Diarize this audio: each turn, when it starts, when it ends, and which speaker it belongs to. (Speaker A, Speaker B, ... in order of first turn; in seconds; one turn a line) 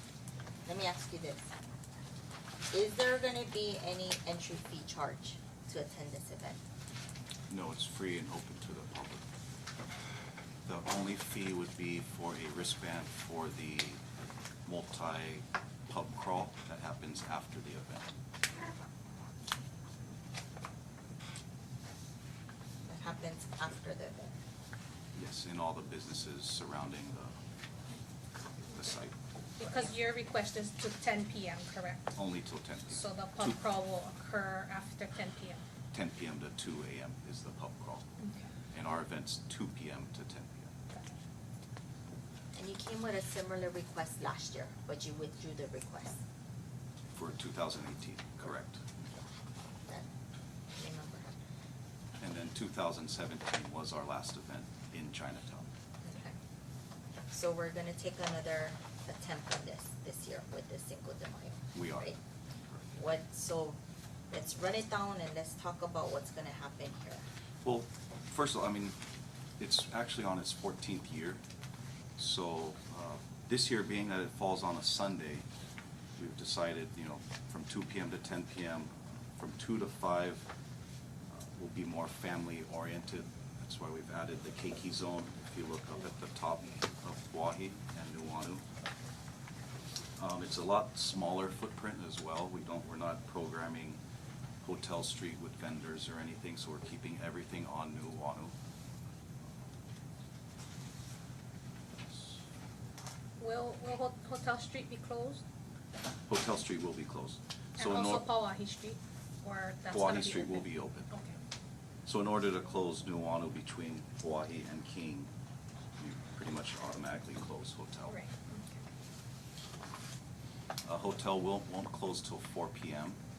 Speaker A: 0.6-1.5
Speaker A: 2.7-6.6
Speaker B: 7.5-9.2
Speaker B: 10.7-14.0
Speaker B: 14.6-18.1
Speaker A: 22.8-24.4
Speaker B: 25.1-27.4
Speaker B: 28.7-29.1
Speaker C: 29.6-32.2
Speaker B: 32.1-33.6
Speaker C: 32.8-35.6
Speaker B: 35.9-38.0
Speaker C: 38.2-38.5
Speaker B: 38.7-40.7
Speaker A: 42.5-46.2
Speaker B: 47.1-48.8
Speaker A: 50.7-51.3
Speaker B: 52.2-55.7
Speaker A: 56.0-56.4
Speaker A: 57.3-62.2
Speaker B: 61.7-62.1
Speaker A: 62.9-63.8
Speaker A: 64.3-67.2
Speaker B: 67.6-69.0
Speaker B: 69.6-71.4
Speaker B: 72.2-75.5
Speaker B: 76.2-80.5
Speaker B: 81.3-88.6
Speaker B: 90.2-94.0
Speaker B: 94.6-98.5
Speaker B: 102.1-102.4
Speaker C: 103.4-105.4
Speaker B: 106.3-108.4
Speaker C: 107.8-111.3
Speaker B: 109.9-111.1
Speaker B: 112.0-115.3
Speaker B: 116.0-118.2
Speaker C: 118.0-118.8
Speaker B: 120.8-123.2